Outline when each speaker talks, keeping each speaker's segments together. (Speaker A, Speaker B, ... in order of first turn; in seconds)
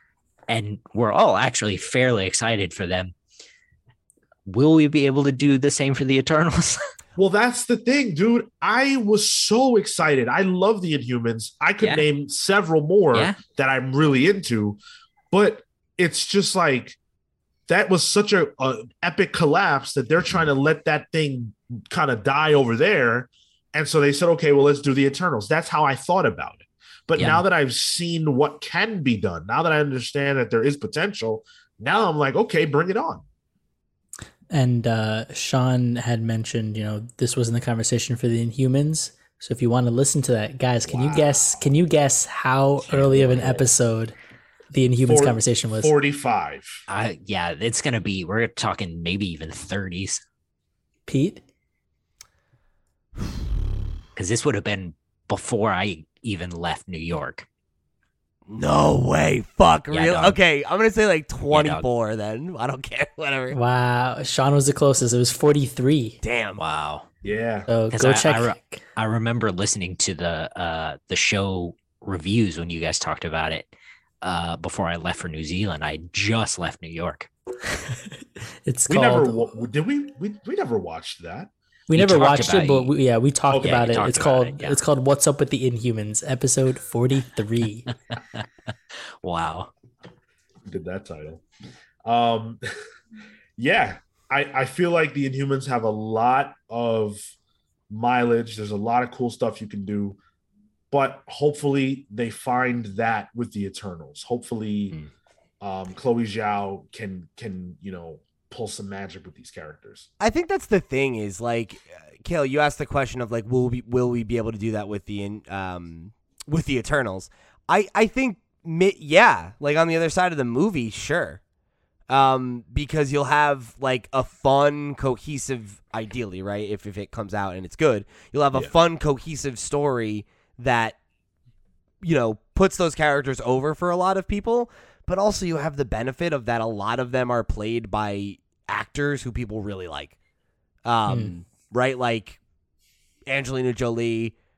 Speaker A: 0.5-3.1, 4.5-6.8, 13.1-13.4, 27.2-27.4, 42.9-43.7, 46.9-50.2, 54.1-57.5, 59.9-60.4, 61.5-61.9, 66.6-67.1, 67.9-77.3, 81.9-82.9, 83.6-84.8, 89.2-89.7
Speaker B: 7.2-14.8, 15.3-17.0, 17.7-33.2, 40.9-41.7, 45.0-46.8, 67.2-67.7, 78.9-81.5, 83.5-83.8, 90.7-91.4, 92.0-92.6, 93.6-97.3, 97.9-100.2, 100.9-105.0, 105.6-110.1
Speaker C: 34.5-44.2, 44.7-45.9, 51.1-51.4, 63.5-66.2, 67.7-68.8, 77.8-79.4, 81.9-87.9, 141.1-141.3
Speaker D: 58.5-63.6, 66.2-66.6, 110.2-121.4, 122.1-131.0, 132.0-140.2, 140.9-142.4, 143.3-144.3